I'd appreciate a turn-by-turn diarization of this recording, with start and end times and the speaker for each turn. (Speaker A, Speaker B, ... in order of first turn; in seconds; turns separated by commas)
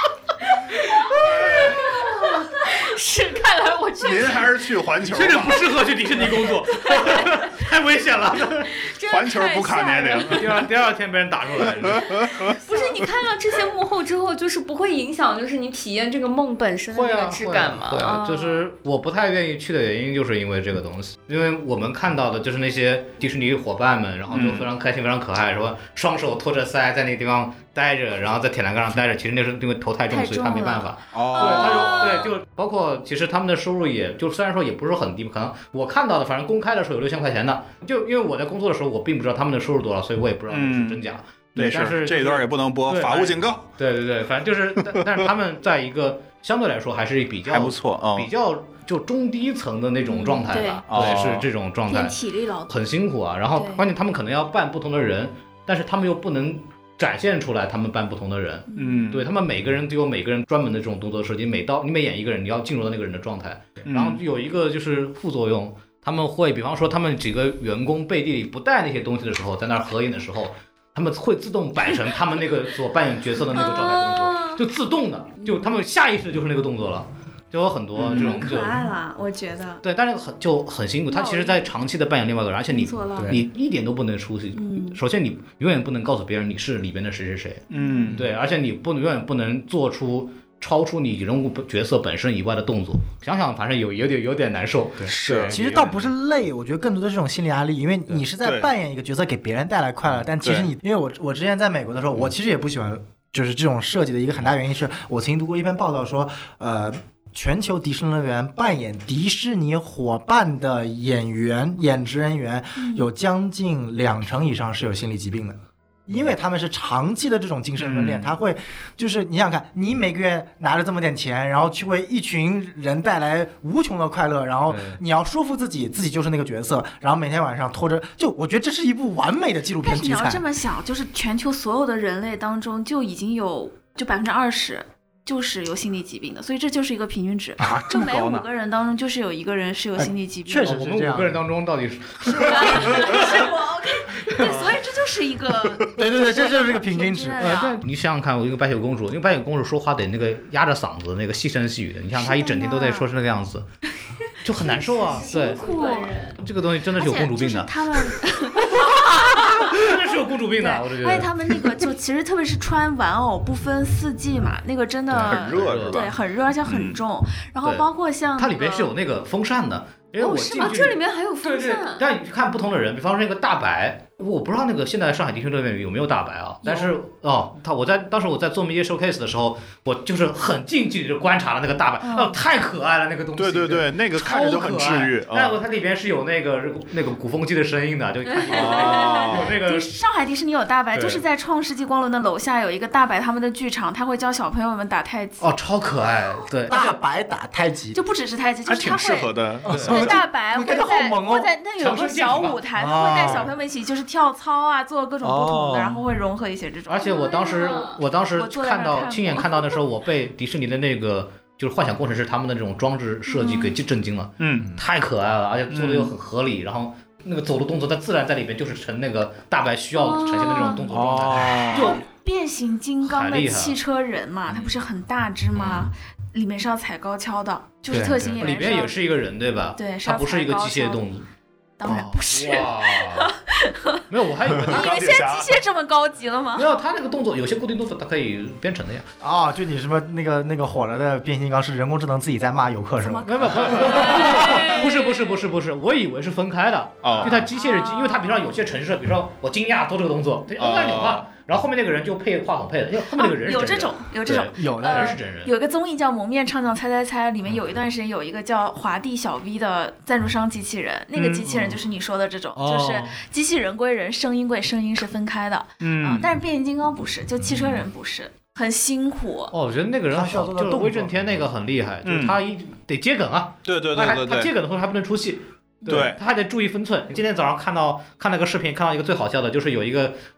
Speaker A: 0.9-4.5, Speaker B: 1.1-1.8, Speaker B: 4.0-5.7, Speaker C: 5.0-8.8, Speaker A: 6.7-7.4, Speaker A: 8.7-10.4, Speaker B: 8.9-10.7, Speaker C: 10.3-12.3, Speaker B: 11.8-12.5, Speaker A: 12.3-18.6, Speaker C: 16.9-52.2, Speaker B: 24.3-24.7, Speaker D: 30.1-32.2, Speaker B: 31.1-32.2, Speaker B: 40.5-41.0, Speaker B: 41.5-43.6, Speaker B: 47.5-48.3, Speaker D: 50.0-50.8, Speaker B: 50.9-51.5, Speaker D: 51.9-52.8, Speaker C: 52.7-78.9, Speaker D: 53.5-53.8, Speaker D: 58.7-59.1, Speaker B: 58.7-59.3, Speaker B: 63.8-64.2, Speaker A: 73.5-74.6, Speaker B: 78.0-78.3, Speaker D: 78.1-79.8, Speaker C: 79.8-96.0, Speaker D: 81.1-81.6, Speaker D: 82.7-83.4, Speaker E: 83.2-83.4, Speaker D: 84.5-85.0, Speaker B: 87.7-88.3, Speaker D: 87.8-88.1, Speaker B: 95.1-96.0, Speaker E: 95.5-130.4, Speaker B: 98.4-98.7, Speaker B: 100.4-100.7, Speaker D: 112.8-113.0, Speaker B: 117.8-118.3, Speaker C: 124.7-125.0, Speaker D: 129.8-140.8, Speaker B: 137.6-138.5, Speaker E: 139.9-141.4, Speaker C: 140.6-143.5, Speaker D: 142.3-147.8, Speaker B: 144.4-144.7, Speaker E: 145.9-147.6, Speaker C: 147.4-153.7, Speaker D: 152.1-153.1, Speaker C: 154.4-155.6, Speaker D: 154.6-156.2, Speaker A: 154.9-156.3, Speaker C: 156.4-161.7, Speaker D: 156.9-160.0, Speaker D: 160.6-168.9, Speaker B: 165.1-167.0, Speaker C: 165.1-166.1, Speaker C: 167.6-189.9, Speaker A: 170.2-172.0, Speaker D: 176.6-176.9, Speaker D: 182.0-182.4, Speaker B: 183.4-185.6, Speaker B: 188.4-189.6, Speaker D: 188.5-195.5, Speaker C: 190.9-191.2, Speaker C: 195.4-196.9, Speaker E: 196.7-198.0, Speaker D: 197.9-207.8, Speaker B: 198.7-200.2, Speaker E: 199.7-201.5, Speaker C: 199.7-200.0, Speaker C: 201.8-202.6, Speaker E: 202.8-203.5, Speaker C: 203.1-203.5, Speaker B: 205.2-206.0, Speaker C: 206.9-222.0, Speaker A: 207.0-208.0, Speaker D: 208.3-209.8, Speaker D: 213.3-213.7, Speaker B: 214.4-214.7, Speaker B: 215.7-216.1, Speaker A: 219.9-220.8, Speaker B: 220.9-222.0, Speaker D: 221.7-229.0, Speaker C: 223.0-223.8, Speaker B: 225.6-225.9, Speaker E: 227.9-228.4, Speaker C: 227.9-231.2, Speaker D: 229.7-231.1, Speaker D: 231.8-236.7, Speaker C: 231.8-233.3, Speaker C: 234.1-235.0, Speaker B: 234.5-235.6, Speaker C: 236.5-239.1, Speaker E: 239.2-243.8, Speaker D: 243.0-245.4, Speaker C: 243.2-255.5, Speaker B: 247.0-247.5, Speaker D: 247.5-248.2, Speaker B: 250.6-251.2, Speaker D: 253.1-269.5, Speaker E: 254.5-255.2, Speaker B: 261.1-261.7, Speaker C: 262.6-263.2, Speaker B: 265.8-266.3, Speaker C: 269.5-280.2, Speaker E: 270.1-271.4, Speaker B: 272.0-272.4, Speaker B: 273.6-274.5, Speaker B: 275.9-276.2